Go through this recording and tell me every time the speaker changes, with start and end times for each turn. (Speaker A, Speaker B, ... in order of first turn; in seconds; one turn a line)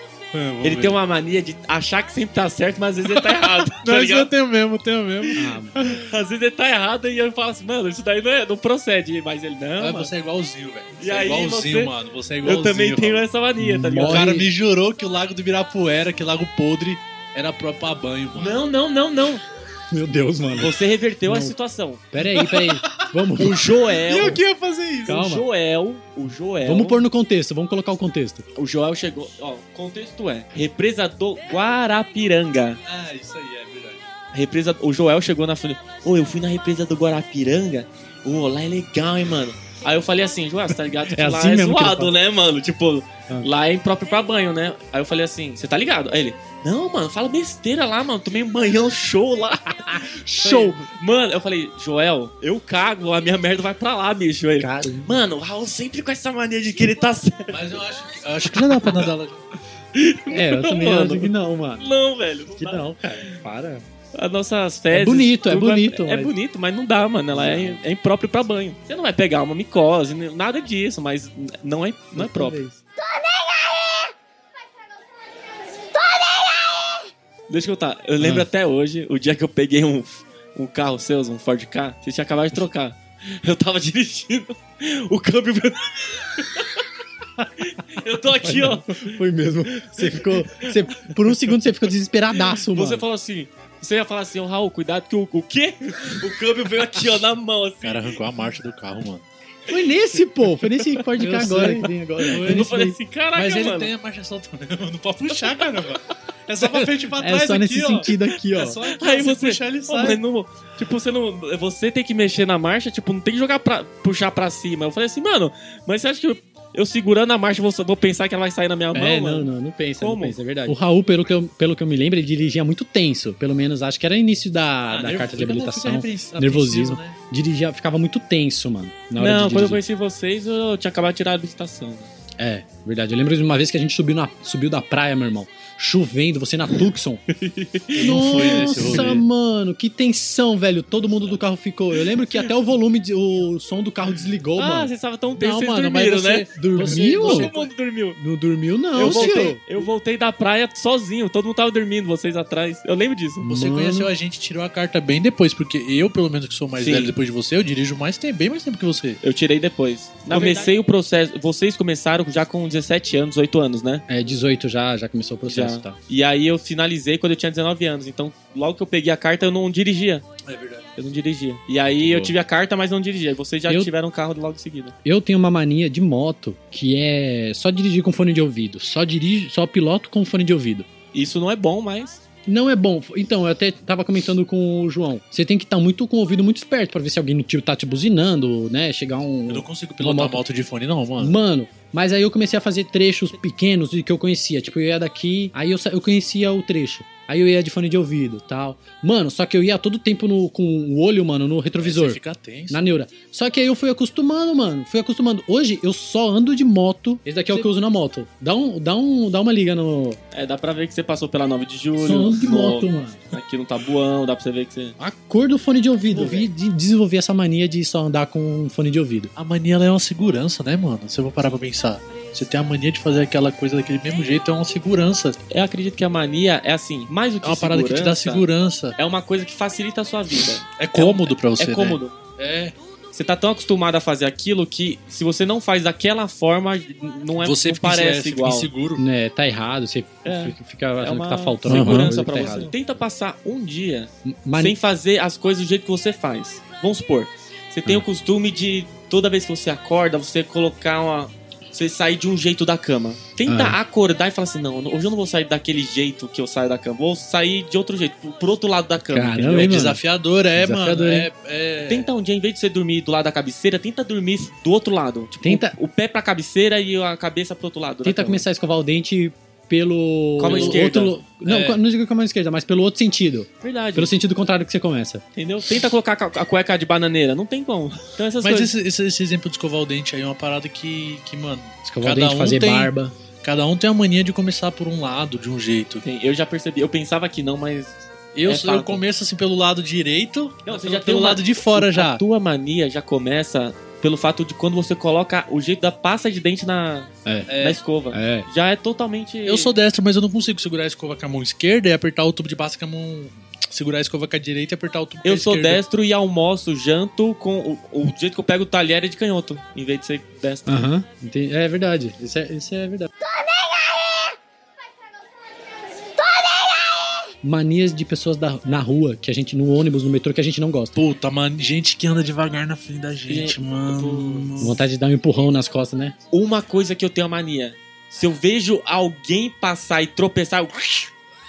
Speaker A: 0.3-1.0
Speaker B: 0.6-4.3
Speaker A: 3.1-6.0
Speaker C: 5.4-5.7
Speaker B: 5.8-10.1
Speaker A: 9.8-18.6
Speaker B: 11.0-11.9
Speaker B: 12.4-14.3
Speaker C: 13.8-14.5
Speaker B: 18.4-19.4
Speaker C: 19.9-21.6
Speaker B: 20.6-22.0
Speaker C: 22.1-23.7
Speaker A: 22.2-25.2
Speaker B: 23.4-24.4
Speaker C: 25.1-25.4
Speaker B: 25.1-27.0
Speaker C: 26.6-28.4
Speaker B: 28.6-32.8
Speaker A: 32.9-34.0
Speaker B: 34.3-57.6
Speaker C: 41.1-42.1
Speaker C: 49.9-50.8
Speaker C: 54.6-55.2
Speaker A: 57.5-59.4
Speaker B: 60.0-63.4
Speaker C: 60.3-61.9
Speaker C: 62.6-63.8
Speaker B: 64.1-72.6
Speaker C: 64.9-66.3
Speaker C: 67.3-67.8
Speaker C: 72.2-72.8
Speaker B: 77.5-86.8
Speaker C: 78.2-78.5
Speaker B: 87.6-89.2
Speaker C: 88.4-93.0
Speaker B: 89.7-91.8
Speaker B: 92.3-98.2
Speaker A: 97.8-99.3
Speaker C: 99.7-103.0
Speaker A: 101.2-102.7
Speaker B: 102.2-103.9
Speaker A: 103.3-110.2
Speaker C: 106.6-108.8
Speaker B: 108.9-120.7
Speaker C: 118.9-129.8
Speaker A: 124.9-127.2
Speaker B: 129.2-132.1
Speaker C: 132.4-137.2
Speaker B: 137.3-139.2
Speaker C: 137.9-144.9
Speaker A: 138.0-139.2
Speaker B: 144.6-148.2
Speaker A: 145.3-147.7
Speaker C: 146.6-147.5
Speaker C: 148.2-149.6
Speaker B: 149.0-153.4
Speaker A: 149.0-149.6
Speaker C: 153.4-154.1
Speaker A: 153.5-159.2
Speaker B: 156.8-157.1
Speaker B: 159.2-164.0
Speaker A: 160.3-160.6
Speaker C: 160.3-160.7
Speaker C: 164.1-166.0
Speaker B: 165.5-170.2
Speaker A: 170.4-170.9
Speaker B: 171.0-174.9
Speaker C: 172.0-172.3
Speaker C: 175.0-180.9
Speaker B: 181.1-182.2
Speaker C: 182.5-190.4
Speaker A: 189.5-191.4
Speaker C: 191.2-202.2
Speaker A: 201.8-202.8
Speaker C: 202.7-210.2
Speaker B: 210.3-215.0
Speaker C: 212.0-213.2
Speaker C: 215.0-219.3
Speaker A: 216.1-216.5
Speaker A: 219.4-225.4
Speaker B: 225.5-228.4
Speaker A: 227.4-228.9
Speaker B: 229.0-232.2
Speaker A: 230.8-232.8
Speaker B: 233.1-238.7
Speaker A: 237.4-239.0
Speaker C: 239.0-242.7
Speaker B: 240.2-259.8
Speaker A: 241.7-242.7
Speaker C: 244.2-244.8
Speaker C: 253.5-253.8
Speaker C: 259.1-260.0
Speaker A: 259.5-262.1
Speaker C: 260.6-261.3
Speaker B: 261.9-268.5
Speaker C: 265.4-265.8
Speaker C: 268.0-275.2
Speaker B: 270.4-271.1
Speaker A: 270.5-270.9
Speaker A: 271.4-271.8
Speaker B: 273.6-274.1
Speaker B: 275.4-278.7
Speaker A: 278.4-282.9
Speaker C: 281.9-283.1
Speaker A: 283.4-286.0
Speaker B: 286.0-289.0
Speaker A: 288.3-292.2
Speaker B: 290.6-299.7
Speaker C: 297.2-297.5
Speaker A: 297.5-297.8
Speaker C: 298.1-298.5
Speaker A: 299.5-305.8
Speaker B: 305.2-310.8
Speaker C: 310.7-313.1
Speaker C: 317.4-320.9
Speaker A: 320.9-324.8
Speaker B: 323.3-324.5
Speaker C: 324.6-326.2
Speaker B: 326.3-331.1